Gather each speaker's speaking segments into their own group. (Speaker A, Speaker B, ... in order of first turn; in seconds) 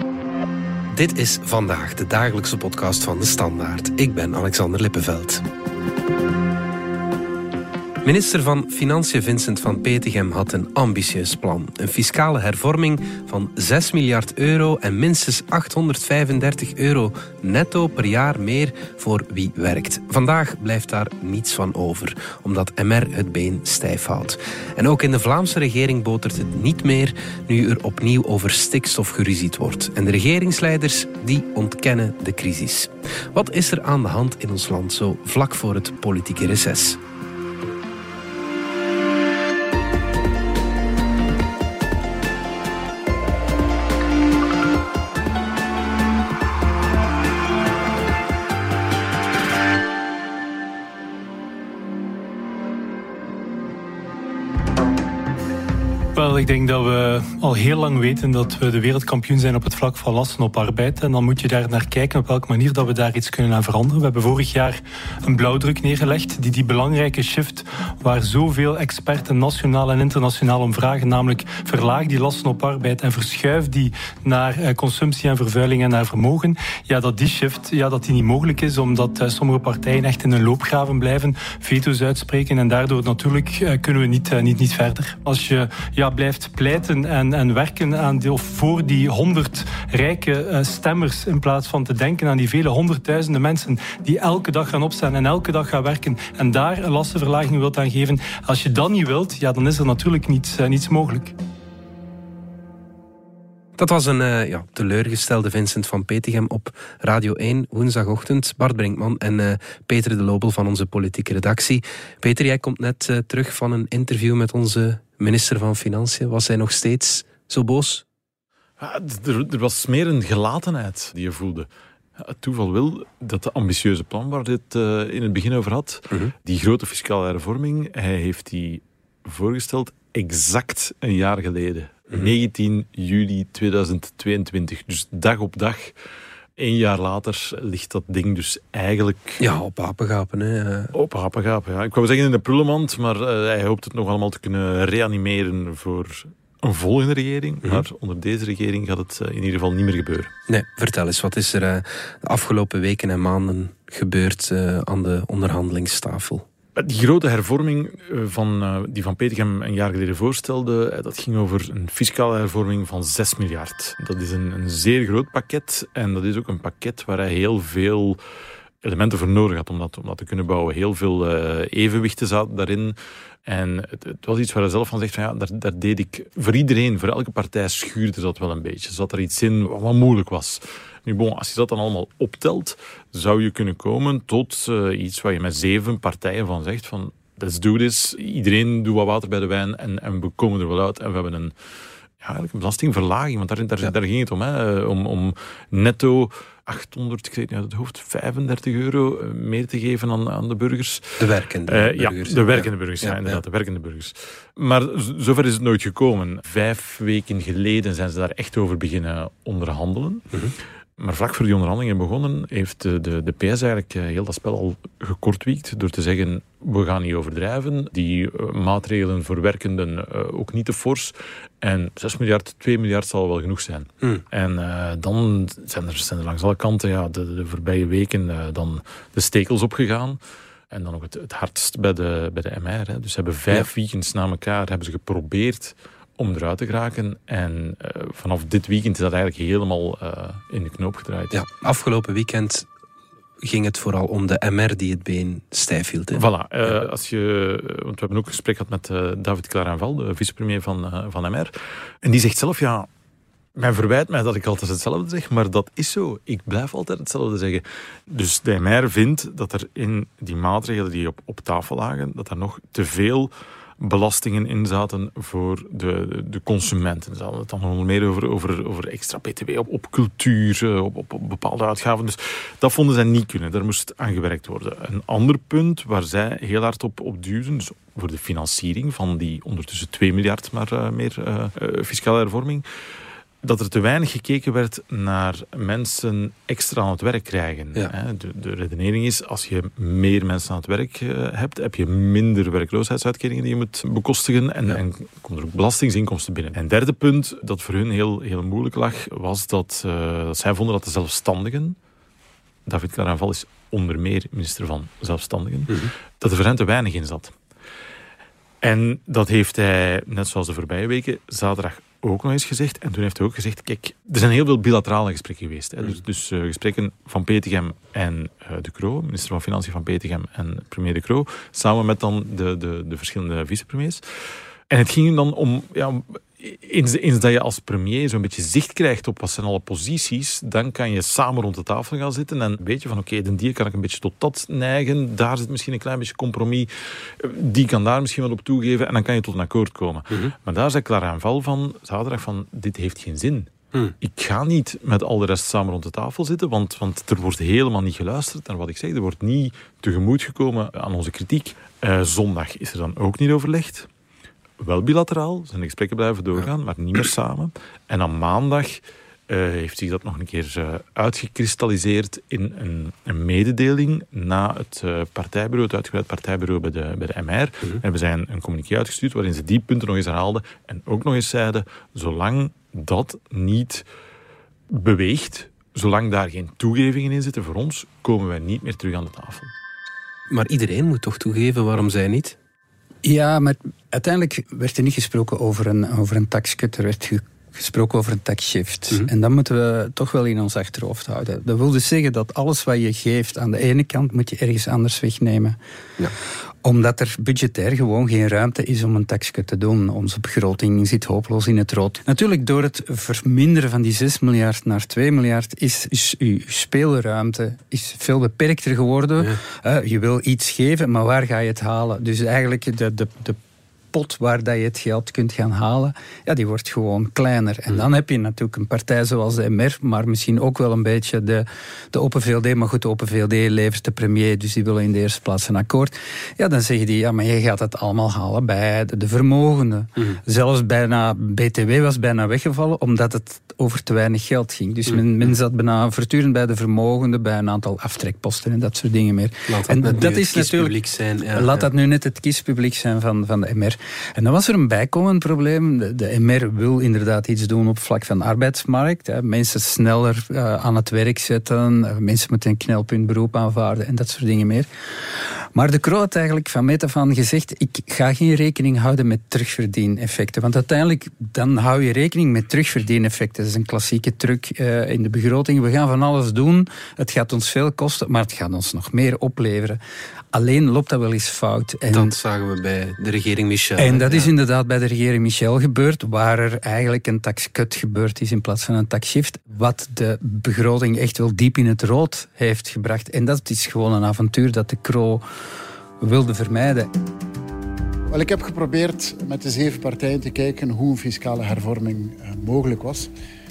Speaker A: 0.9-5.5, 8.0-37.0, 103.8-118.0, 139.4-140.9, 150.5-156.4, 201.2-203.4, 241.3-242.7, 243.4-246.2, 380.3-382.4, 439.5-441.6, 471.9-474.3
Speaker B: 56.1-101.3
Speaker C: 118.8-121.7, 122.2-135.9, 136.6-139.4, 140.9-150.3, 156.8-168.2, 168.8-191.5, 192.2-210.2, 211.0-230.2, 230.7-241.3, 246.1-252.9, 253.6-282.6, 283.4-301.8, 302.6-307.3, 308.6-324.0, 324.7-353.9, 354.6-373.8, 374.7-379.5
Speaker D: 383.0-395.6, 396.6-413.4, 413.9-440.8, 441.3-454.7, 455.5-469.8, 470.3-472.1, 473.8-485.2, 486.0-486.9
Speaker E: 488.1-493.1